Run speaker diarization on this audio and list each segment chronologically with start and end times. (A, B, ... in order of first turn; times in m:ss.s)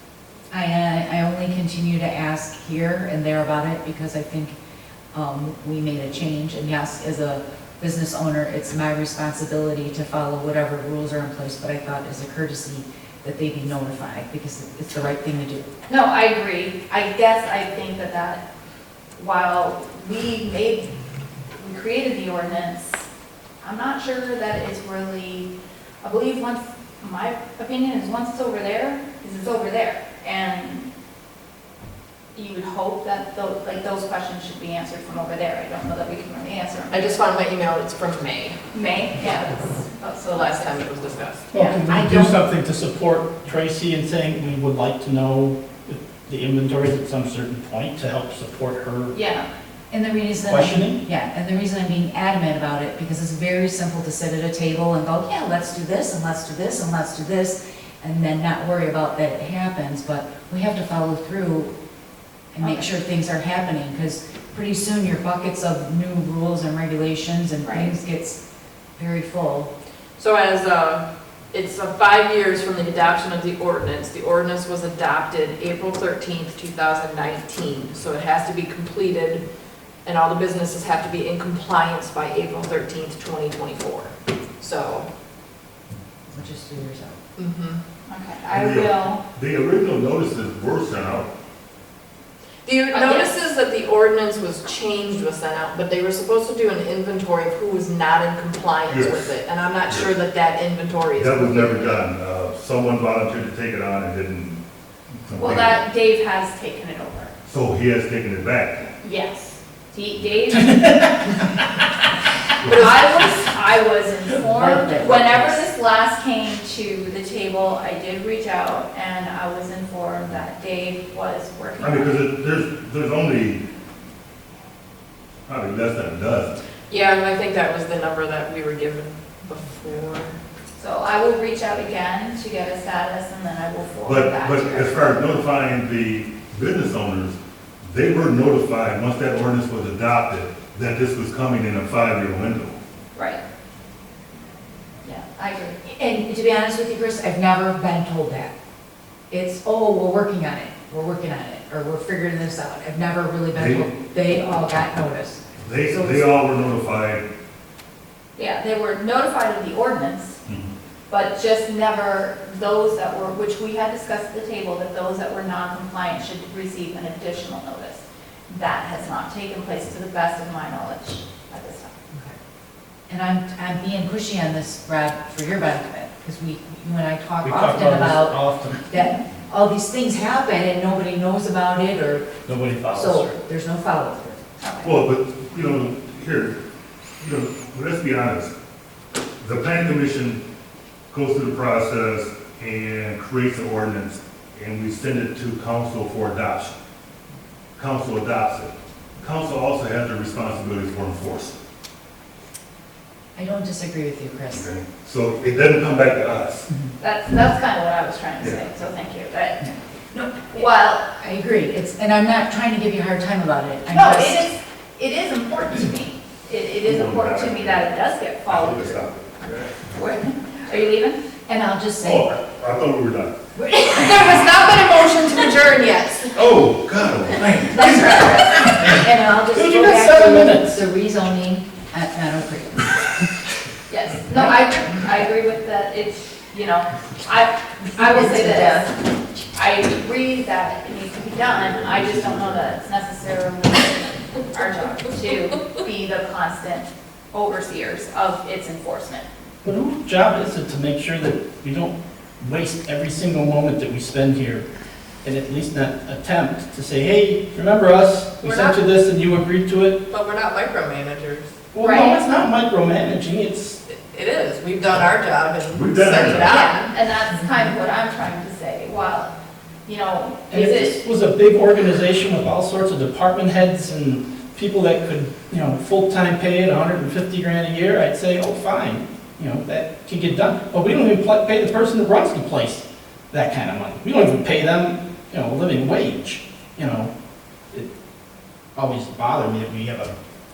0:00.5-0:04.6 A
0:05.1-0:15.7 A
0:15.9-0:18.4 B
0:19.2-0:20.9 B
0:21.6-0:23.1 B
0:23.6-0:25.5 B
0:26.0-0:30.9 B
0:32.3-0:37.2 B
0:36.9-0:38.6 C
0:38.7-0:40.8 B
0:40.3-0:41.5 C
0:41.5-0:49.1 D
0:41.5-0:41.8 B
0:41.8-0:42.4 A
0:49.1-0:49.5 B
0:49.9-1:01.7 A
0:50.5-0:51.0 D
1:02.5-1:08.4 A
1:02.6-1:02.9 B
1:07.6-1:07.9 B
1:09.0-1:09.7 A
1:10.2-1:19.4 C
1:20.0-1:25.1 C
1:26.3-1:27.2 A
1:27.4-1:27.8 C
1:28.1-1:29.2 B
1:28.5-1:31.3 E
1:32.6-1:42.0 C
1:32.9-1:33.3 B
1:38.9-1:39.4 E
1:41.2-1:44.6 E
1:45.3-1:45.8 E
1:45.4-1:47.3 B
1:47.5-1:48.9 E
1:49.0-1:50.9 B
1:50.6-1:51.4 D
1:52.6-2:02.3 B
1:54.4-1:55.7 A
2:01.8-2:03.6 E
2:05.5-2:06.6 E
2:06.9-2:10.4 C
2:10.8-2:15.3 B
2:14.1-2:22.8 E
2:23.2-2:23.4 B
2:25.0-2:25.8 B
2:25.8-2:28.5 A
2:29.3-2:36.3 A
2:33.6-2:33.9 E
2:35.6-2:37.3 E
2:38.4-2:40.4 B
2:40.5-2:40.7 E
2:41.1-2:51.9 B
2:53.1-3:02.3 A
2:57.4-2:58.9 D
3:02.5-3:03.4 D
3:02.9-3:04.4 A
3:04.6-3:05.0 B
3:04.8-3:06.6 E
3:07.2-3:08.5 E
3:09.4-3:10.4 E
3:11.1-3:16.8 E
3:17.8-3:21.6 E
3:23.4-3:24.7 A
3:24.6-3:26.7 E
3:27.0-3:31.1 B
3:30.5-3:34.5 A
3:33.9-3:39.0 B
3:36.8-3:37.8 E
3:38.5-3:39.8 E
3:39.9-3:41.2 B
3:41.5-3:42.3 A
3:42.0-3:43.4 E
3:43.6-3:46.4 B
3:46.4-3:48.3 E
3:47.7-3:53.3 A
3:47.7-3:48.8 B
3:48.7-3:49.0 D
3:49.5-3:50.8 D
3:53.9-3:59.0 B
3:54.3-3:55.2 A
3:58.0-3:58.9 A
3:59.5-4:09.3 B
4:01.8-4:02.6 E
4:09.6-4:14.6 D
4:15.2-4:20.0 D
4:18.4-4:18.8 C
4:20.1-4:21.5 C
4:21.7-4:23.8 D
4:21.8-4:22.2 B
4:23.9-4:26.9 C
4:25.7-4:26.6 E
4:26.4-4:29.3 B
4:29.9-4:31.0 B
4:30.5-4:47.1 D
4:48.8-4:50.1 D